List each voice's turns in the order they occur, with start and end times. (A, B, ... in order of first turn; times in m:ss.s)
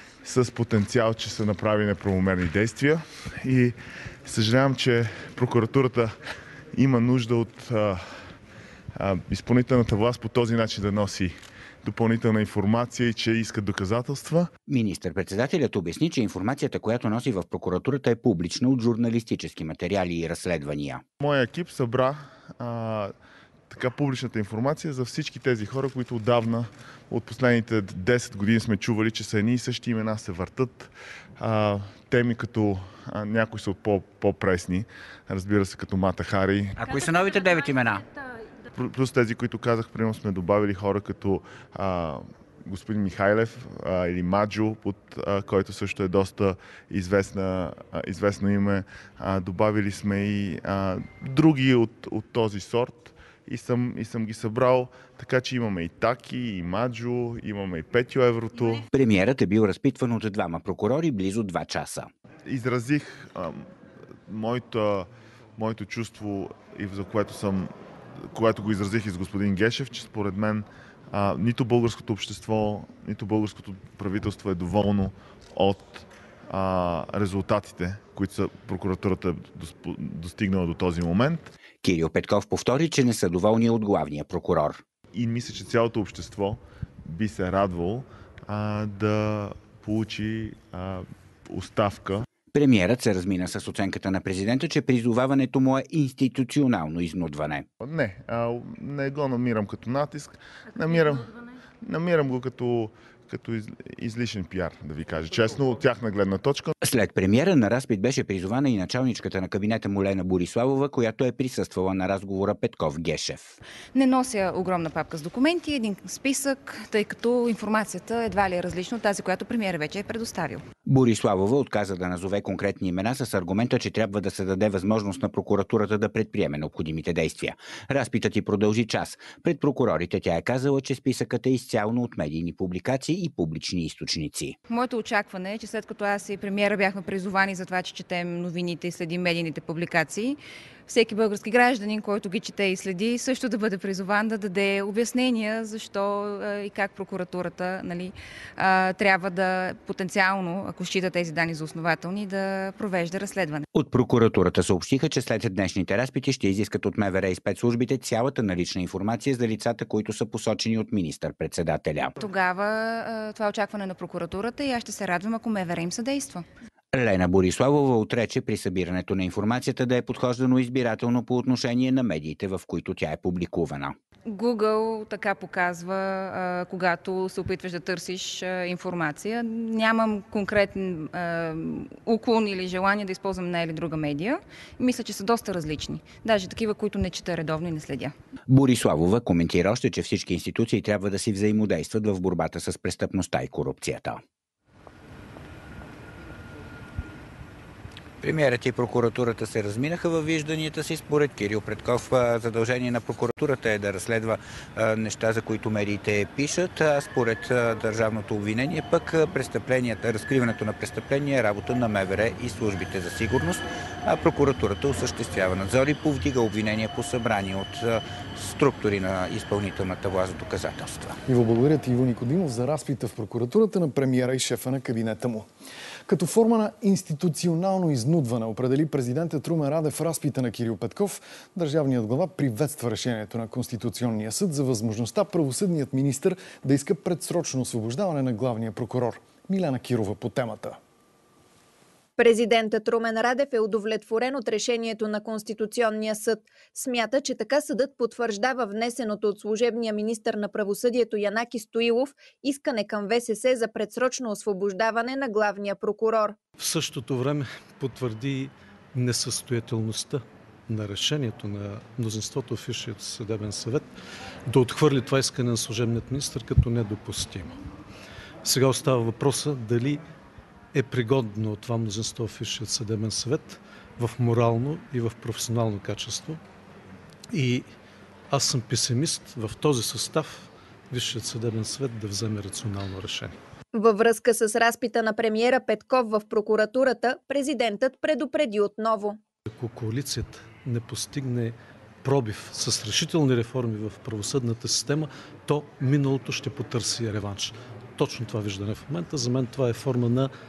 0:00.2-0:06.2 A
0:06.7-0:08.3 A
0:09.0-0:14.5 A
0:14.7-0:21.0 B
0:21.2-0:23.1 A
0:23.7-0:36.7 A
0:36.8-0:38.0 B
0:38.7-0:58.8 A
0:58.9-1:02.1 B
1:02.4-1:03.7 A
1:04.2-1:21.5 A
1:21.8-1:24.8 B
1:25.1-1:32.2 A
1:32.5-1:37.6 B
1:37.8-1:41.3 A
1:41.8-1:46.7 A
1:46.8-1:53.6 B
1:53.9-2:00.6 C
2:00.8-2:14.6 B
2:14.7-2:33.6 C
2:33.7-2:42.1 B
2:42.2-2:46.4 C
2:46.9-2:54.0 B
2:54.3-3:08.1 C
3:08.5-3:14.2 B
3:18.2-3:41.2 B
3:41.2-3:45.5 D
3:46.1-4:00.8 D
4:02.2-4:16.4 E
4:16.6-4:23.9 F
4:24.4-4:27.5 F
4:28.4-4:30.0 F
4:30.7-4:36.4 F
4:37.3-4:37.7 F
4:38.3-4:43.4 F
4:43.7-4:49.2 E
4:49.5-5:00.3 F